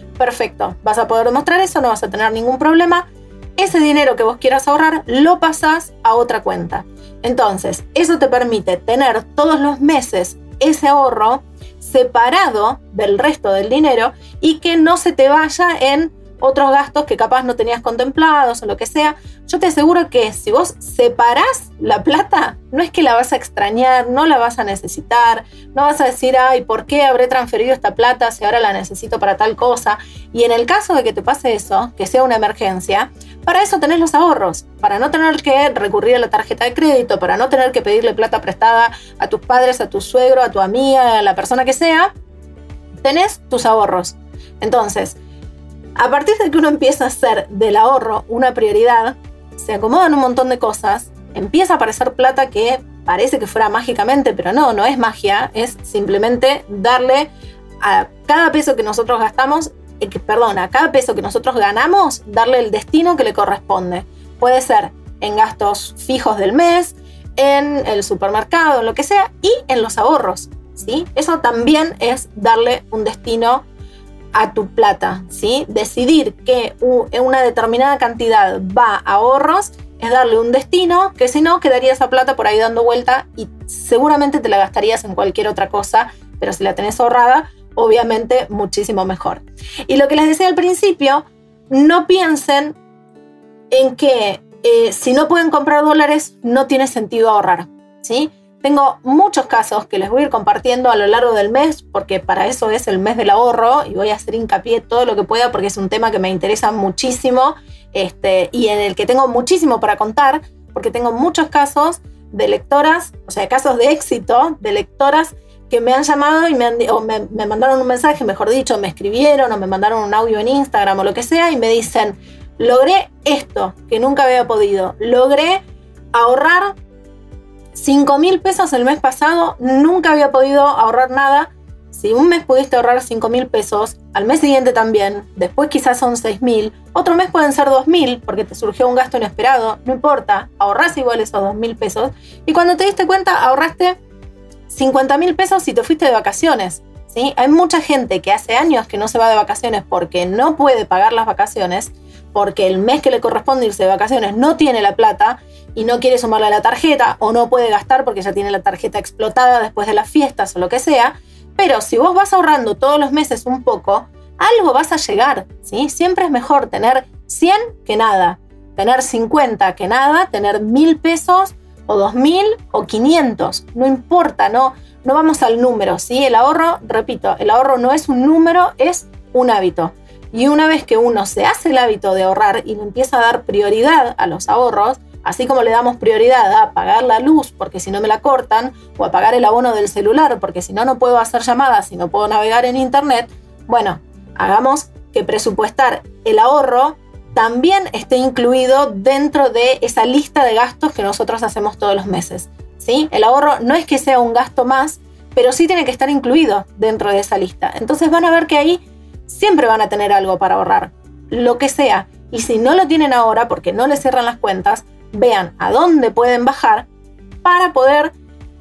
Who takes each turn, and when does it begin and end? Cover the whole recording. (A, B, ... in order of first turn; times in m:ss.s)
0:00.2-0:03.0 A
0:03.6-0:42.1 A
0:43.0-0:45.2 A
0:46.0-0:57.3 A
0:57.8-1:13.6 A
1:14.3-1:32.8 A
1:33.7-2:05.6 A
2:06.1-2:06.7 A
2:07.7-2:24.0 A
2:24.7-3:36.8 A
3:37.4-3:38.1 A